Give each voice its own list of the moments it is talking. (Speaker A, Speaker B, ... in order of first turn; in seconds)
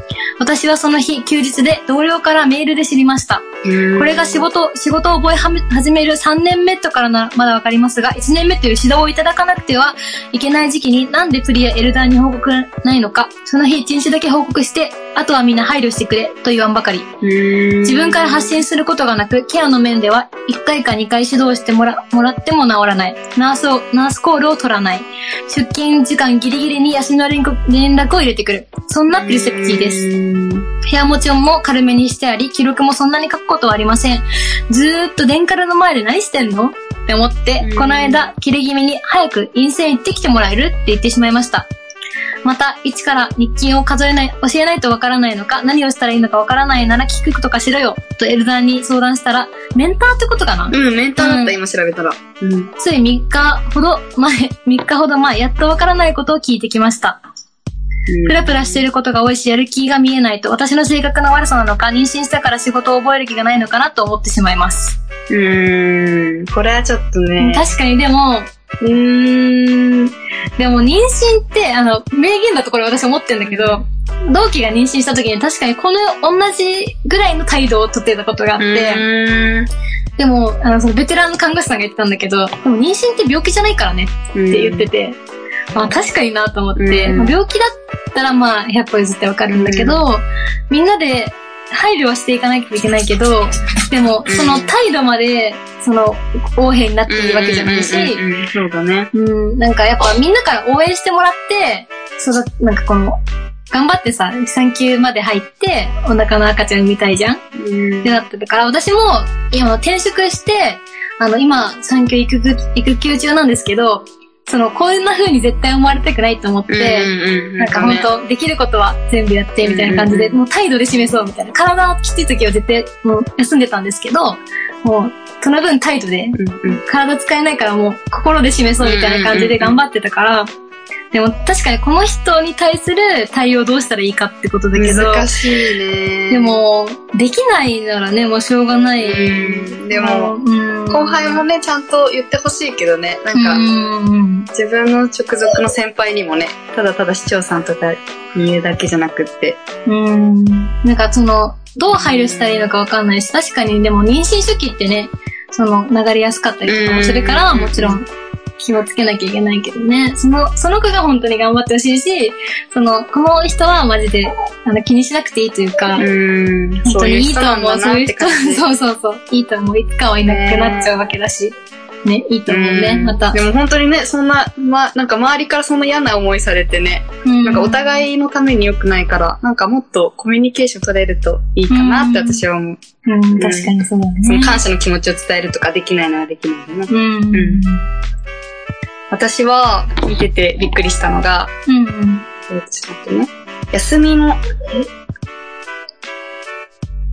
Speaker A: 0.4-17.1, 17.8-30.1, 30.8-41.7, 42.4-51.5, 52.8-57.2, 58.2-65.0, 67.4-79.0, 80.2-85.2, 85.7-98.2, 99.1-103.2, 103.7-107.4, 108.0-130.5, 131.1-135.3, 136.3-141.4, 143.3-144.5, 149.9-158.1, 158.6-166.1, 166.8-173.4, 177.2-178.0, 181.7-182.4, 183.1-184.6, 186.9-187.8, 191.7-192.2
Speaker B: 3.6-4.4, 17.2-18.6, 29.1-30.7, 37.6-38.2, 50.7-52.7, 58.1-58.8, 65.3-67.7, 73.4-73.8, 78.6-79.7, 84.3-84.9, 86.8-87.3, 89.5-90.0, 94.2-94.7, 97.1-99.1, 107.5-108.1, 116.7-118.1, 119.6-120.4, 126.3-126.8, 128.8-129.8, 134.7-136.6, 139.0-140.3, 140.9-143.6, 144.5-149.6, 151.9-152.7, 156.7-158.0, 165.9-168.7, 170.2-170.9, 172.5-182.8, 183.3-187.6, 189.1-191.5, 192.5-194.4